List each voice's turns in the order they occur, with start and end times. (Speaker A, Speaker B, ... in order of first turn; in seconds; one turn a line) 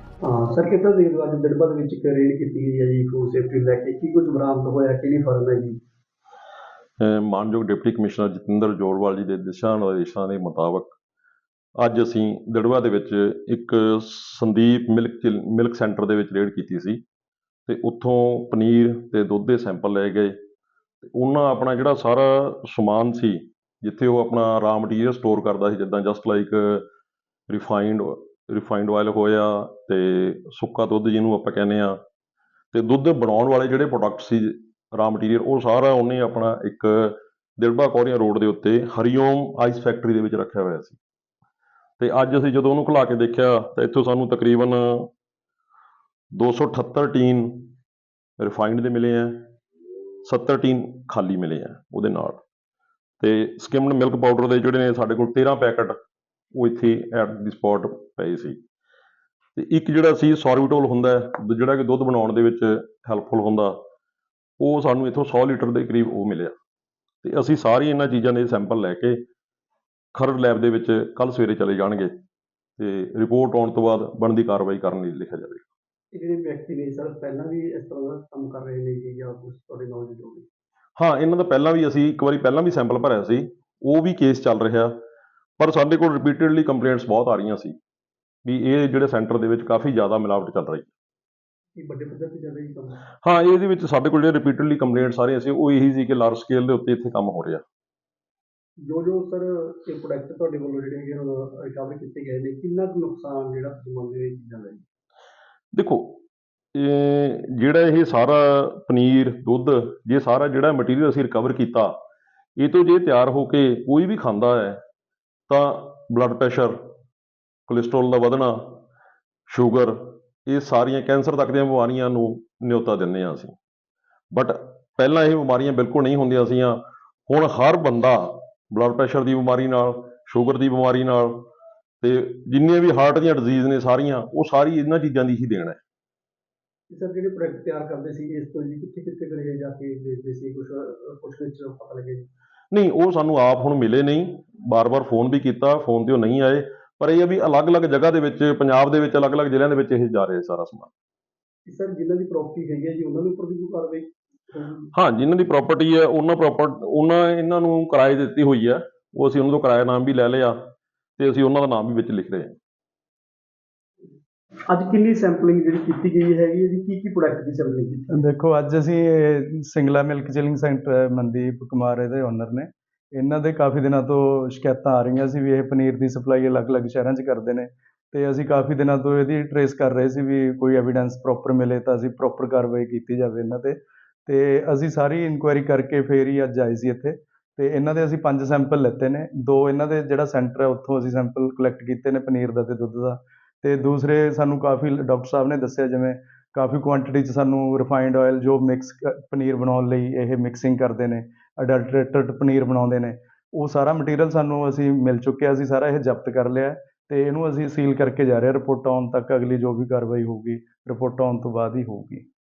Speaker A: 0.2-5.8
Speaker B: 7.0-11.0
Speaker B: 11.8-17.0
Speaker B: 17.7-20.4
Speaker B: 21.0-26.9
Speaker B: 27.5-32.0
Speaker B: 32.7-41.0
Speaker B: 42.0-45.1
Speaker B: 46.4-47.7
Speaker B: 48.4-49.5
Speaker B: 50.2-52.4
Speaker B: 53.2-56.0
Speaker B: 56.5-58.6
Speaker B: 59.5-63.8
Speaker B: 64.6-66.5
Speaker B: 67.2-69.2
Speaker B: 70.2-72.1
Speaker B: 72.8-75.6
Speaker A: 76.1-80.5
Speaker B: 81.0-84.9
Speaker B: 85.6-87.8
Speaker B: 88.4-90.9
Speaker A: 91.8-93.0
Speaker B: 93.2-97.6
Speaker A: 98.8-104.8
Speaker B: 105.7-106.2
Speaker B: 106.8-111.9
Speaker B: 112.6-114.8
Speaker B: 115.5-116.8
Speaker B: 117.7-118.8
Speaker B: 119.5-123.6
Speaker B: 124.3-131.5
Speaker B: 132.0-135.8
Speaker A: 136.9-142.2
Speaker B: 142.7-150.9
Speaker A: 151.7-154.9
Speaker B: 154.9-162.6
Speaker A: 164.7-168.1
Speaker C: 168.1-212.2